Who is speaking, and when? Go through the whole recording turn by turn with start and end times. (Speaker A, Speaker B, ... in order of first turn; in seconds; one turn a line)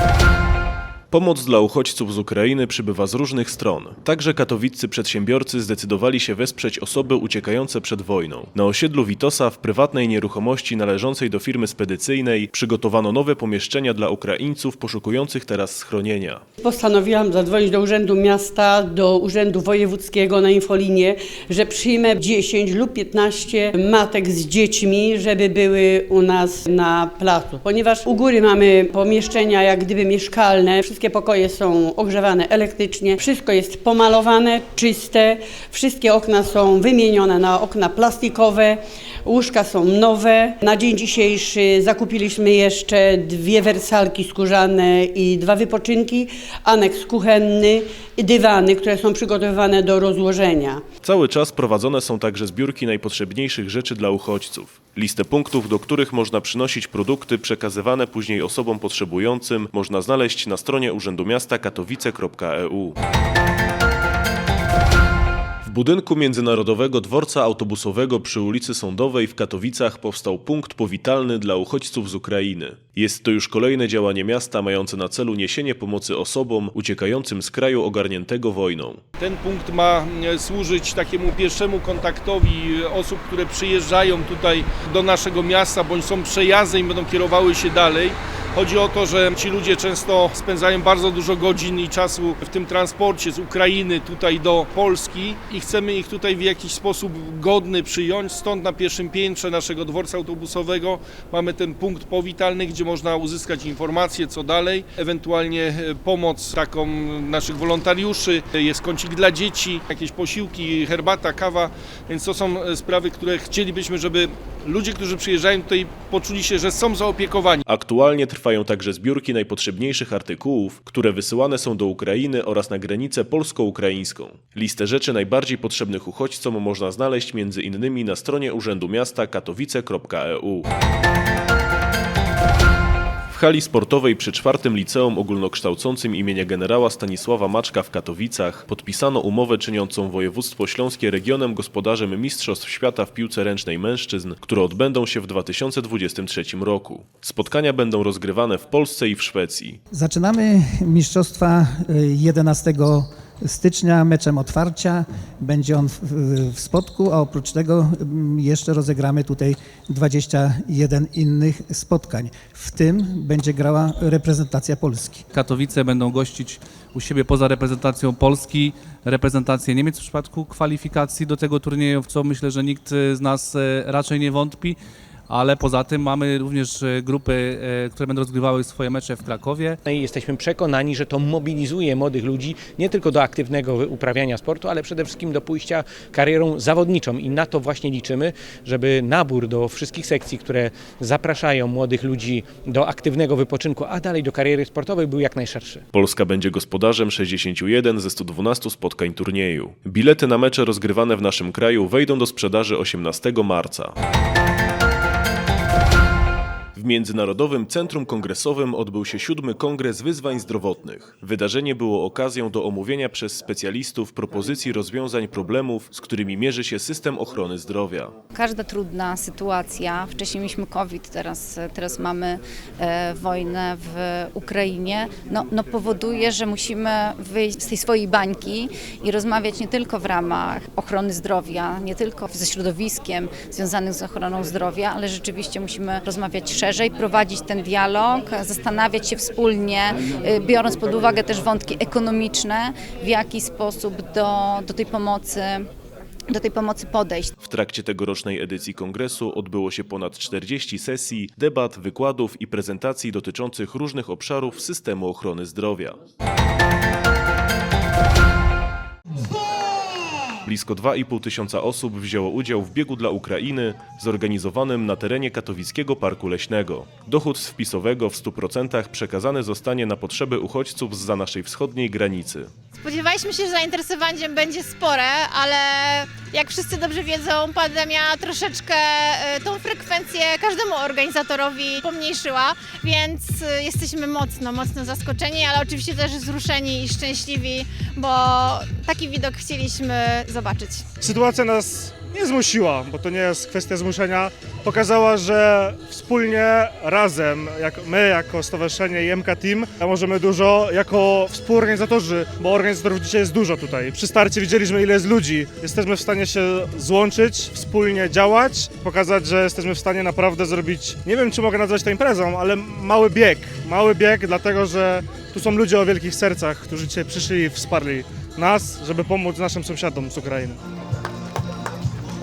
Speaker A: 1.1-16.4
Speaker B: 16.6-50.8
Speaker A: 51.0-63.0
Speaker A: 65.6-79.0
Speaker C: 79.2-117.6
Speaker A: 117.7-130.7
Speaker A: 133.3-149.8
Speaker D: 149.9-165.2
Speaker E: 165.3-174.8
Speaker E: 175.3-179.8
Speaker F: 179.8-195.8
Speaker A: 195.9-203.9
Speaker A: 206.7-218.1
Speaker G: 218.3-245.7
Speaker G: 246.3-247.3
Speaker A: 247.4-256.0
Speaker A: 260.4-272.5
Speaker H: 272.8-290.9
Speaker I: 291.0-320.6